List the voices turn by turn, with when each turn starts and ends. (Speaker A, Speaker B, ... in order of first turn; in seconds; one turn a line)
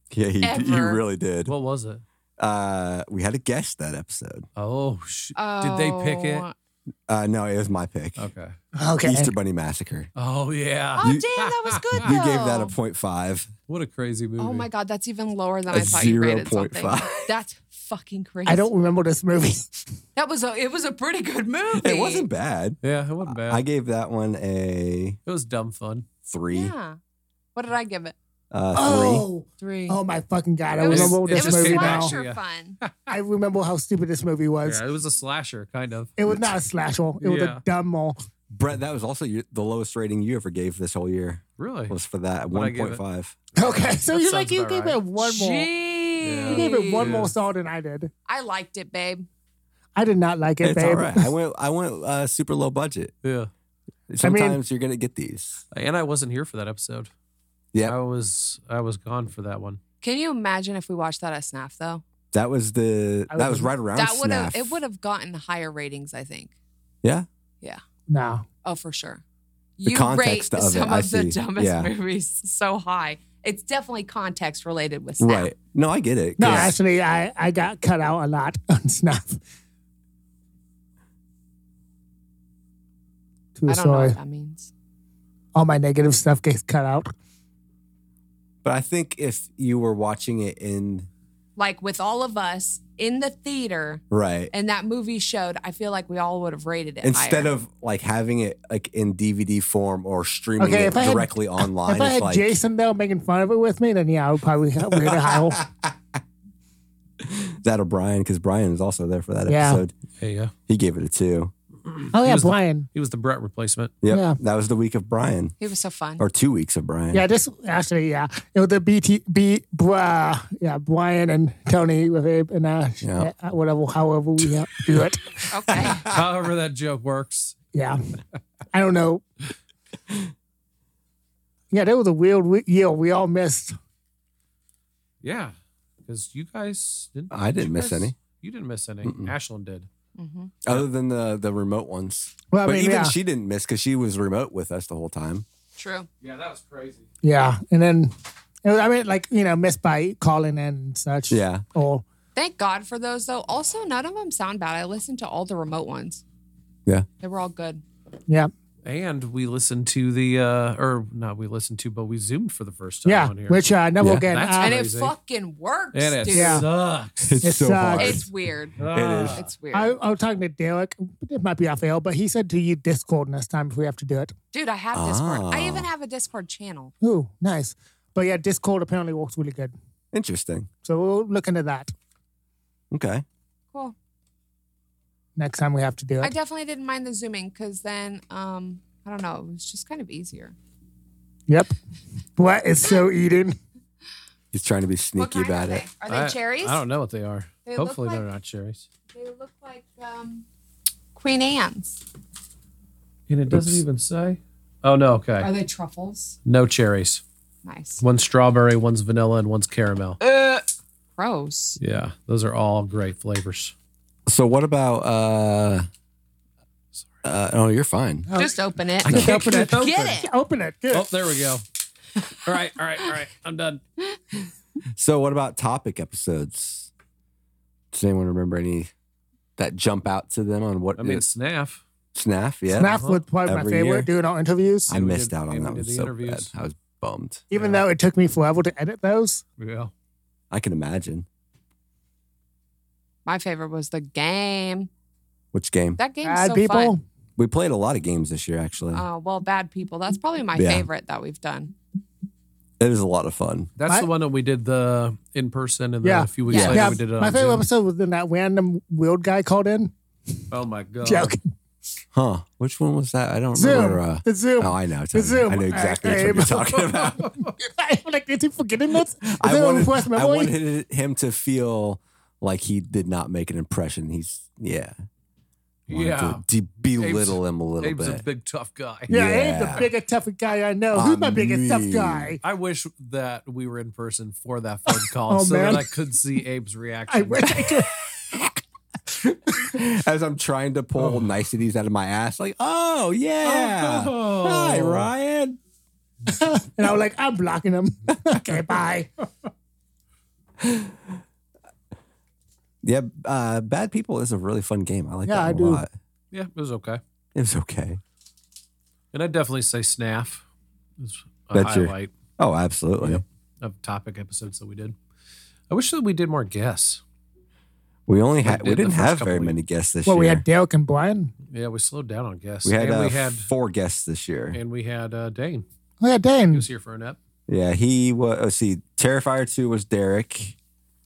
Speaker A: 0.1-1.5
Speaker B: 0.4-1.0
Speaker C: 1.5-2.0
Speaker A: 2.4-4.5
Speaker C: 4.5-6.4
Speaker B: 5.3-6.5
Speaker A: 7.1-8.3
Speaker C: 8.2-8.5
Speaker D: 8.8-9.3
Speaker A: 9.0-10.1
Speaker C: 10.2-12.0
Speaker B: 10.9-12.7
Speaker A: 11.0-11.3
Speaker A: 11.9-13.5
Speaker C: 13.7-14.7
Speaker B: 14.4-18.7
Speaker A: 15.7-17.3
Speaker D: 18.4-19.8
Speaker B: 20.1-22.3
Speaker A: 21.7-25.2
Speaker C: 22.8-23.6
Speaker C: 25.2-26.1
Speaker A: 26.3-26.7
Speaker B: 26.5-27.0
Speaker B: 27.5-28.1
Speaker A: 28.5-29.2
Speaker D: 28.7-32.1
Speaker B: 29.6-30.0
Speaker B: 30.8-32.8
Speaker C: 30.8-33.1
Speaker D: 33.1-34.8
Speaker C: 34.6-36.1
Speaker D: 36.2-38.2
Speaker C: 37.2-37.6
Speaker A: 38.5-43.4
Speaker C: 41.6-42.0
Speaker C: 42.5-43.0
Speaker C: 43.5-45.0
Speaker D: 43.6-45.7
Speaker B: 45.2-47.2
Speaker C: 46.2-47.3
Speaker D: 46.5-48.1
Speaker B: 48.3-49.3
Speaker D: 50.0-51.3
Speaker A: 50.6-53.1
Speaker C: 53.2-53.5
Speaker A: 54.1-55.6
Speaker D: 54.2-54.6
Speaker C: 55.7-57.1
Speaker C: 57.8-59.8
Speaker B: 60.0-62.0
Speaker A: 62.3-64.8
Speaker D: 63.3-63.7
Speaker B: 63.9-66.5
Speaker D: 68.1-68.5
Speaker B: 68.6-69.2
Speaker B: 69.8-75.5
Speaker A: 69.8-71.9
Speaker A: 75.2-76.8
Speaker D: 76.4-79.4
Speaker D: 83.5-84.2
Speaker B: 83.7-84.7
Speaker D: 85.5-87.1
Speaker A: 88.6-91.1
Speaker B: 91.6-97.5
Speaker A: 94.1-94.5
Speaker A: 97.0-102.5
Speaker D: 100.6-105.6
Speaker A: 104.9-105.9
Speaker A: 107.2-109.9
Speaker D: 109.5-109.8
Speaker C: 110.2-110.5
Speaker A: 110.7-111.5
Speaker C: 111.9-113.9
Speaker D: 112.1-112.9
Speaker A: 114.0-115.5
Speaker D: 114.1-114.4
Speaker B: 115.6-116.2
Speaker A: 116.2-117.2
Speaker D: 117.1-125.5
Speaker A: 123.0-123.3
Speaker B: 125.5-126.1
Speaker A: 125.7-126.2
Speaker C: 126.1-127.5
Speaker D: 127.7-128.0
Speaker D: 128.7-129.2
Speaker D: 131.7-133.8
Speaker C: 135.2-135.5
Speaker C: 136.1-139.9
Speaker A: 137.3-138.1
Speaker A: 139.0-139.3
Speaker B: 140.2-140.5
Speaker A: 140.6-145.4
Speaker D: 142.5-143.1
Speaker B: 145.8-146.1
Speaker C: 146.2-147.1
Speaker D: 147.2-152.0
Speaker A: 151.3-151.6
Speaker B: 152.3-156.2
Speaker B: 157.2-157.8
Speaker C: 158.8-163.7
Speaker D: 163.0-164.8
Speaker A: 164.0-164.3
Speaker C: 164.3-165.1
Speaker B: 164.6-166.7
Speaker C: 165.9-167.4
Speaker D: 166.3-166.7
Speaker A: 167.2-169.5
Speaker D: 167.4-168.2
Speaker B: 167.9-169.9
Speaker C: 168.8-169.5
Speaker D: 169.7-174.3
Speaker B: 174.5-176.9
Speaker A: 174.9-175.9
Speaker D: 177.0-179.7
Speaker A: 180.1-180.7
Speaker D: 180.8-181.9
Speaker A: 182.9-183.2
Speaker D: 185.3-186.3
Speaker B: 186.2-190.5
Speaker D: 191.5-191.7
Speaker D: 192.3-193.6
Speaker A: 194.5-195.8
Speaker B: 195.2-196.8
Speaker C: 196.1-198.9
Speaker B: 197.6-198.2
Speaker B: 199.1-200.4
Speaker B: 201.2-202.0
Speaker C: 203.3-205.5
Speaker A: 203.5-203.8
Speaker B: 205.4-206.3
Speaker C: 206.4-207.2
Speaker B: 207.6-208.0
Speaker C: 208.0-210.2
Speaker B: 210.2-210.6
Speaker B: 211.2-211.8
Speaker C: 211.8-213.7
Speaker A: 214.3-215.9
Speaker A: 217.2-218.3
Speaker D: 218.3-221.1
Speaker B: 218.3-220.3
Speaker C: 219.0-220.2
Speaker C: 220.9-221.6
Speaker C: 222.3-223.8
Speaker B: 224.0-224.4
Speaker A: 224.9-226.9
Speaker A: 227.9-228.9
Speaker A: 229.6-231.2
Speaker C: 231.0-231.8
Speaker A: 232.1-234.1
Speaker D: 232.7-234.9
Speaker C: 232.8-233.2
Speaker A: 234.9-237.4
Speaker C: 234.9-236.5
Speaker D: 237.5-239.4
Speaker C: 237.5-237.9
Speaker C: 239.6-239.9
Speaker A: 240.5-241.2
Speaker B: 243.2-244.9
Speaker A: 245.5-246.0
Speaker B: 246.0-246.9
Speaker D: 246.2-247.0
Speaker A: 247.3-249.0
Speaker B: 248.9-251.7
Speaker A: 250.5-250.8
Speaker A: 252.8-253.7
Speaker C: 253.8-257.7
Speaker D: 256.0-259.9
Speaker B: 256.5-257.0
Speaker C: 260.5-261.3
Speaker D: 261.0-261.4
Speaker A: 262.1-267.3
Speaker D: 263.5-267.0
Speaker C: 267.2-267.5
Speaker D: 267.6-270.5
Speaker A: 269.2-274.9
Speaker C: 275.9-276.4
Speaker A: 275.9-278.2
Speaker C: 277.0-279.1
Speaker A: 279.1-279.9
Speaker D: 279.1-282.4
Speaker A: 280.9-282.4
Speaker C: 282.4-287.7
Speaker D: 285.3-285.9
Speaker D: 287.1-287.9
Speaker A: 289.1-295.6
Speaker C: 293.4-295.1
Speaker D: 296.3-299.1
Speaker A: 300.6-301.2
Speaker A: 302.8-305.9
Speaker D: 305.2-305.8
Speaker C: 306.3-307.0
Speaker A: 307.3-308.0
Speaker C: 309.1-310.4
Speaker C: 311.0-312.1
Speaker A: 311.5-313.2
Speaker C: 313.0-314.9
Speaker C: 315.7-317.0
Speaker A: 318.1-320.4
Speaker C: 318.4-319.6
Speaker D: 320.1-321.3
Speaker C: 321.5-323.5
Speaker A: 322.6-324.6
Speaker C: 324.5-325.6
Speaker D: 326.0-326.7
Speaker C: 326.5-327.2
Speaker A: 327.5-330.6